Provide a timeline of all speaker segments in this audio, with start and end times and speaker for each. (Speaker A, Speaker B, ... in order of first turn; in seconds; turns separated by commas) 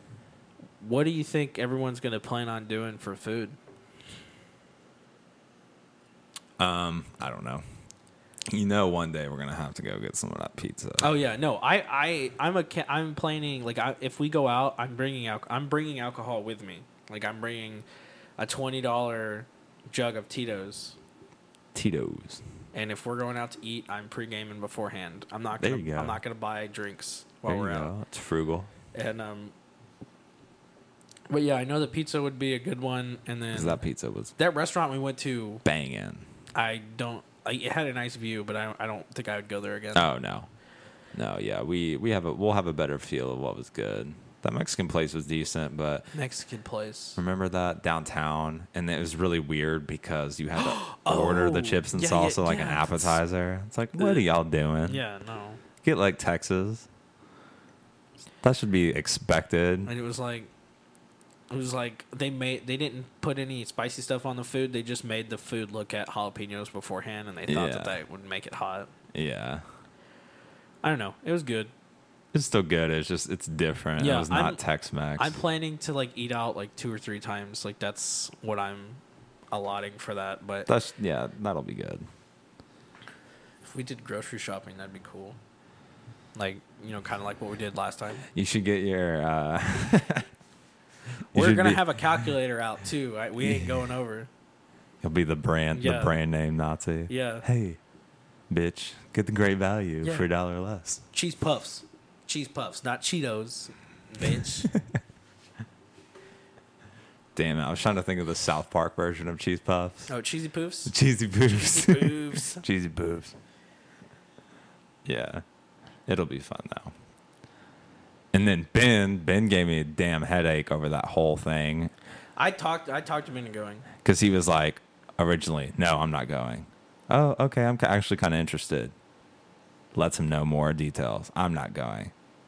Speaker A: 0.8-3.6, Speaker B: 6.6-7.6, Speaker B: 8.5-11.1, Speaker A: 11.0-17.8, Speaker A: 18.4-21.0, Speaker B: 21.7-22.4, Speaker A: 22.7-27.9, Speaker B: 25.6-26.2, Speaker B: 27.4-28.7, Speaker A: 28.9-29.5, Speaker A: 31.3-33.8, Speaker B: 33.5-34.3, Speaker A: 34.4-35.6, Speaker B: 35.6-36.3, Speaker A: 36.5-40.1, Speaker B: 39.9-40.5, Speaker B: 41.1-46.1, Speaker A: 46.1-47.2, Speaker B: 47.2-55.0, Speaker A: 50.5-53.2, Speaker A: 54.0-54.2, Speaker A: 54.8-55.6, Speaker B: 55.8-56.9, Speaker B: 58.4-59.9, Speaker A: 59.9-60.5, Speaker A: 61.5-68.9, Speaker B: 67.5-68.0, Speaker B: 69.1-69.6, Speaker A: 70.8-71.7, Speaker B: 72.3-75.4, Speaker A: 74.0-74.6, Speaker A: 75.2-80.7, Speaker B: 80.7-82.1, Speaker A: 83.7-85.4, Speaker A: 86.3-88.2, Speaker B: 88.3-90.3, Speaker B: 91.3-92.3, Speaker A: 91.3-94.3, Speaker B: 93.4-93.7, Speaker B: 95.0-97.8, Speaker A: 95.7-96.1, Speaker A: 97.1-97.5, Speaker B: 98.5-101.0, Speaker A: 100.0-100.3, Speaker A: 101.1-104.7, Speaker B: 107.3-110.1, Speaker A: 110.1-110.9, Speaker B: 110.8-113.3, Speaker A: 111.5-112.6, Speaker B: 115.0-115.4, Speaker B: 116.0-116.9, Speaker B: 118.3-121.9, Speaker A: 122.4-123.8, Speaker B: 124.0-128.9, Speaker B: 129.9-132.1